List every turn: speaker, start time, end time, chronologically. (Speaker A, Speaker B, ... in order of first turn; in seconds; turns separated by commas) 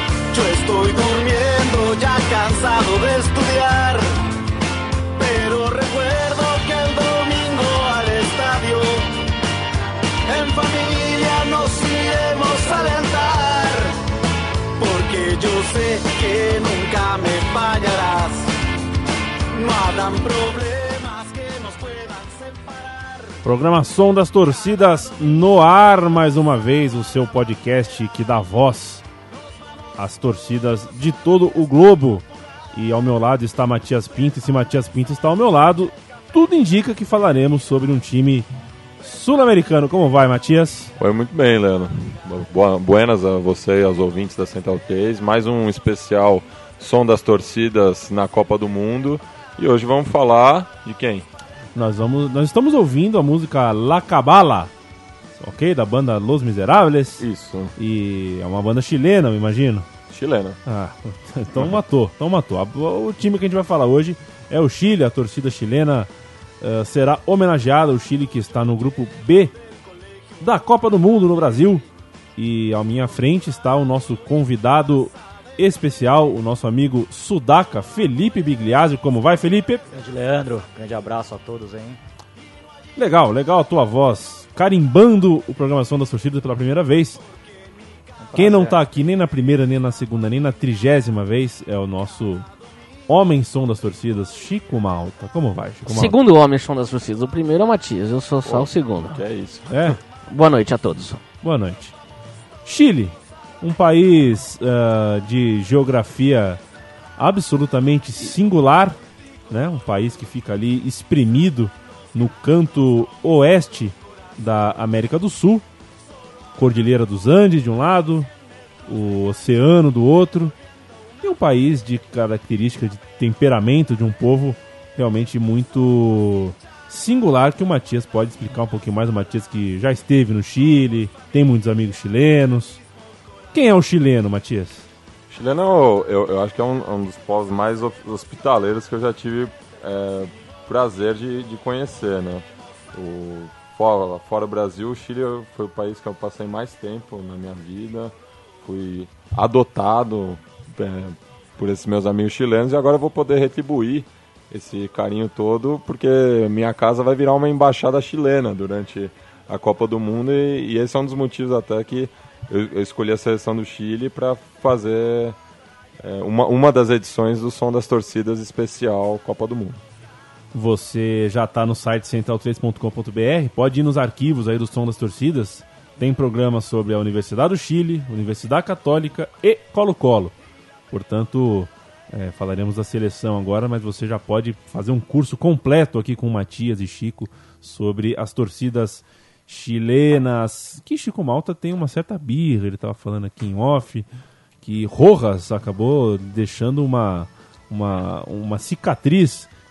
Speaker A: 0.3-4.0, Speaker A: 5.2-9.0, Speaker A: 10.3-13.9, Speaker A: 14.8-18.5, Speaker A: 19.5-23.3, Speaker B: 23.4-29.1, Speaker B: 30.0-38.5, Speaker B: 39.0-40.9, Speaker C: 41.0-51.3, Speaker B: 51.8-54.7, Speaker B: 55.4-57.2, Speaker C: 57.2-57.7, Speaker B: 57.8-59.9, Speaker C: 60.1-60.6, Speaker B: 60.7-66.1, Speaker B: 66.6-69.5, Speaker B: 70.4-71.8, Speaker B: 72.4-79.8, Speaker D: 79.9-82.0, Speaker B: 83.0-87.2, Speaker D: 88.2-88.8, Speaker B: 88.3-92.5, Speaker B: 93.1-96.2, Speaker E: 95.9-99.2, Speaker C: 98.4-99.7, Speaker B: 99.7-100.0, Speaker E: 100.3-101.2, Speaker B: 101.4-101.9, Speaker B: 102.7-106.6, Speaker B: 107.2-109.0, Speaker B: 109.5-115.7, Speaker B: 116.6-118.3, Speaker B: 118.9-120.5, Speaker B: 121.2-132.8, Speaker B: 133.5-134.9, Speaker C: 135.3-165.4, Speaker C: 166.0-169.8, Speaker B: 170.5-180.3, Speaker B: 180.9-194.1, Speaker B: 194.6-199.5